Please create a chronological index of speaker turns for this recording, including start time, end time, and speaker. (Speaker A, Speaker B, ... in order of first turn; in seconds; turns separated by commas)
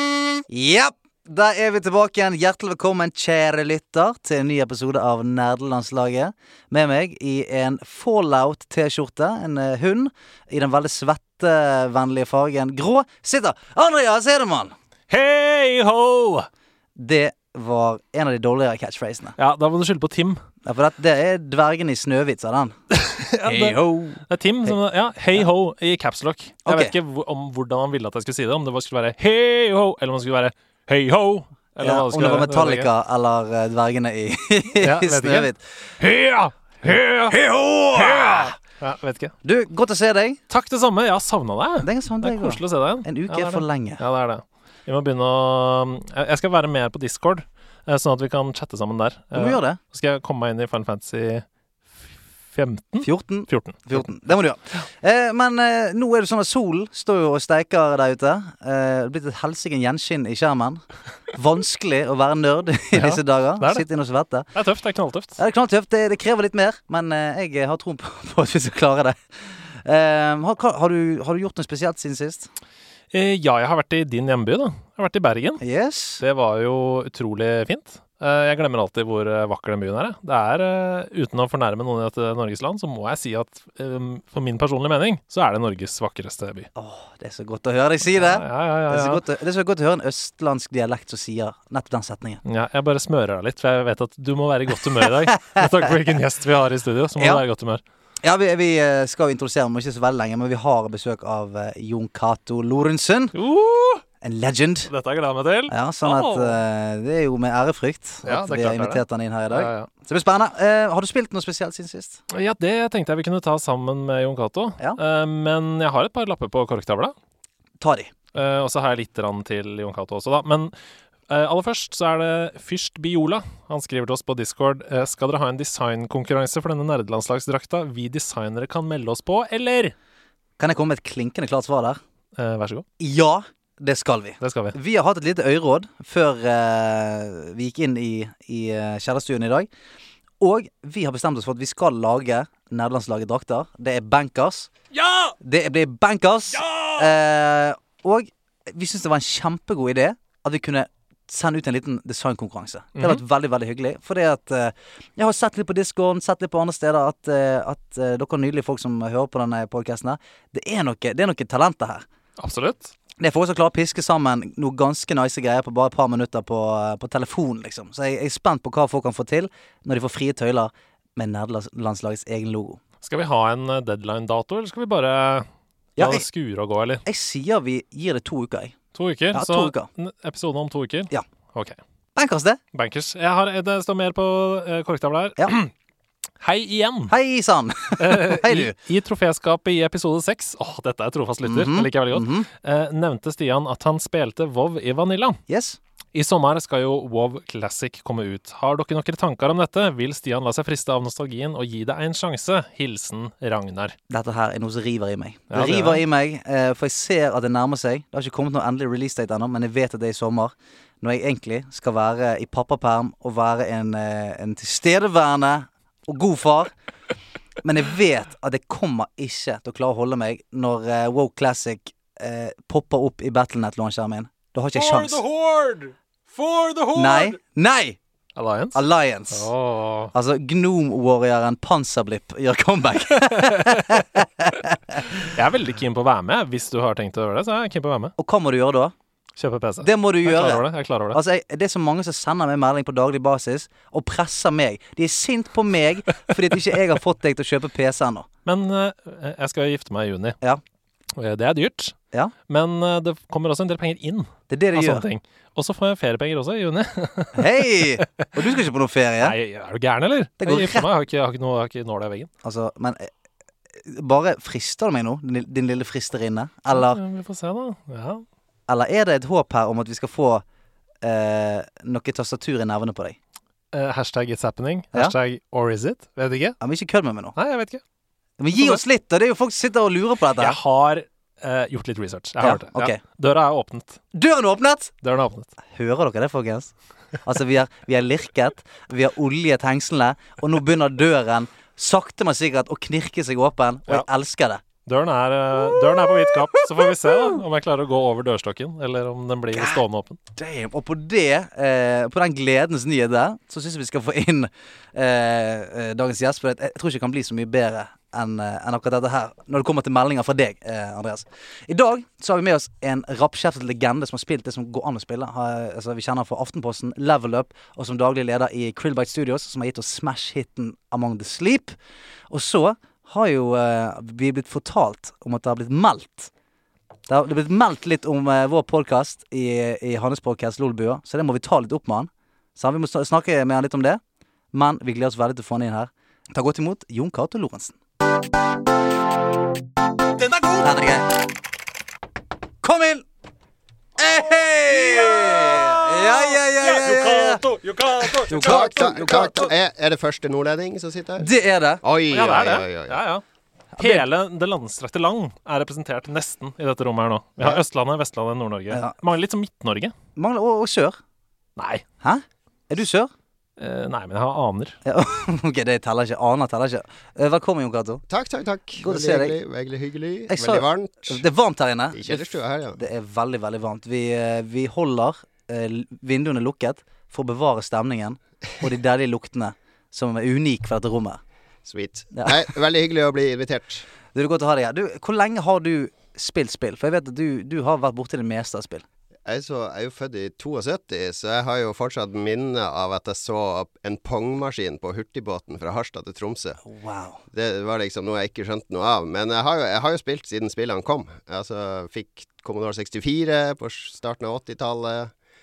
Speaker A: 0.5-14.7, Speaker B: 15.1-16.5, Speaker A: 16.9-19.3, Speaker B: 19.4-20.4, Speaker A: 20.6-22.8, Speaker B: 22.9-32.9, Speaker A: 23.4-24.7, Speaker A: 26.6-26.9, Speaker A: 31.8-35.6, Speaker B: 34.8-37.4, Speaker A: 37.3-38.5, Speaker B: 37.9-39.3, Speaker A: 39.4-40.4, Speaker B: 40.5-51.4, Speaker A: 41.8-44.0, Speaker A: 49.3-49.8, Speaker B: 52.0-54.0, Speaker A: 53.0-64.5, Speaker B: 62.9-63.8, Speaker B: 64.5-65.4, Speaker A: 65.4-72.5, Speaker B: 73.1-75.6, Speaker A: 75.6-76.2, Speaker B: 76.2-86.7, Speaker A: 86.7-92.4, Speaker B: 88.2-89.2, Speaker B: 92.4-97.8, Speaker A: 97.2-97.4, Speaker A: 98.2-103.3, Speaker B: 103.3-104.0, Speaker A: 104.2-104.9, Speaker B: 104.9-106.6, Speaker A: 105.7-112.2, Speaker B: 108.2-109.9, Speaker B: 112.3-117.1, Speaker A: 117.8-118.1, Speaker B: 118.3-120.7, Speaker B: 121.3-129.9, Speaker A: 130.6-132.0, Speaker B: 132.4-132.8, Speaker A: 133.0-139.7, Speaker B: 134.4-134.8, Speaker A: 140.4-144.7, Speaker B: 144.9-145.3, Speaker A: 145.4-162.0, Speaker B: 146.6-147.0, Speaker B: 162.4-162.9, Speaker A: 163.2-172.8, Speaker B: 173.0-177.0, Speaker A: 176.0-176.2, Speaker A: 177.0-178.8, Speaker B: 178.9-181.8, Speaker A: 179.3-179.9, Speaker A: 182.2-182.6, Speaker B: 182.7-185.7, Speaker B: 186.4-187.1, Speaker A: 187.1-188.7, Speaker B: 188.0-195.4, Speaker A: 191.4-192.5, Speaker A: 195.5-195.8, Speaker B: 196.1-203.9, Speaker A: 204.1-216.7, Speaker B: 205.5-206.0, Speaker A: 217.6-225.2, Speaker B: 224.7-227.4, Speaker A: 226.9-228.0, Speaker B: 228.3-228.8, Speaker A: 228.7-229.5, Speaker B: 229.3-230.1, Speaker A: 230.1-235.0, Speaker B: 233.2-234.0, Speaker B: 235.2-238.1, Speaker A: 238.2-238.9, Speaker B: 239.4-241.2, Speaker A: 239.8-248.3, Speaker B: 248.4-250.4, Speaker B: 251.2-252.0, Speaker B: 252.5-257.9, Speaker A: 254.5-255.0, Speaker A: 257.4-259.3, Speaker B: 259.2-262.3, Speaker A: 260.4-260.9, Speaker A: 262.4-263.1, Speaker A: 263.8-267.0, Speaker B: 266.7-268.2, Speaker A: 268.7-270.4, Speaker A: 271.0-273.2, Speaker B: 273.7-276.6, Speaker A: 276.6-277.4, Speaker B: 277.4-277.8, Speaker A: 278.4-280.6, Speaker B: 278.5-278.8, Speaker B: 280.4-284.0, Speaker A: 282.4-283.0, Speaker A: 284.1-284.9, Speaker B: 285.0-285.5, Speaker A: 285.7-294.6, Speaker B: 294.9-300.2, Speaker A: 299.5-299.8, Speaker A: 300.4-321.7, Speaker A: 322.3-326.3, Speaker A: 327.1-334.0, Speaker A: 334.5-337.8, Speaker A: 340.4-341.1, Speaker A: 342.6-343.1, Speaker A: 344.0-347.4, Speaker B: 344.7-349.4, Speaker A: 348.0-349.4, Speaker C: 348.4-351.3, Speaker A: 351.2-351.8, Speaker C: 351.8-353.0, Speaker B: 352.1-353.2, Speaker A: 353.8-354.0, Speaker B: 353.8-359.9, Speaker A: 358.7-358.9, Speaker A: 360.1-361.0, Speaker B: 361.6-361.8, Speaker A: 362.0-363.1, Speaker B: 363.6-364.8, Speaker A: 364.8-368.0, Speaker C: 368.1-371.2, Speaker A: 368.8-369.4, Speaker A: 370.3-372.2, Speaker C: 371.9-372.8, Speaker A: 372.8-381.2, Speaker C: 381.6-383.9, Speaker A: 384.1-388.8, Speaker C: 389.2-396.6, Speaker A: 396.6-397.2, Speaker C: 397.3-405.1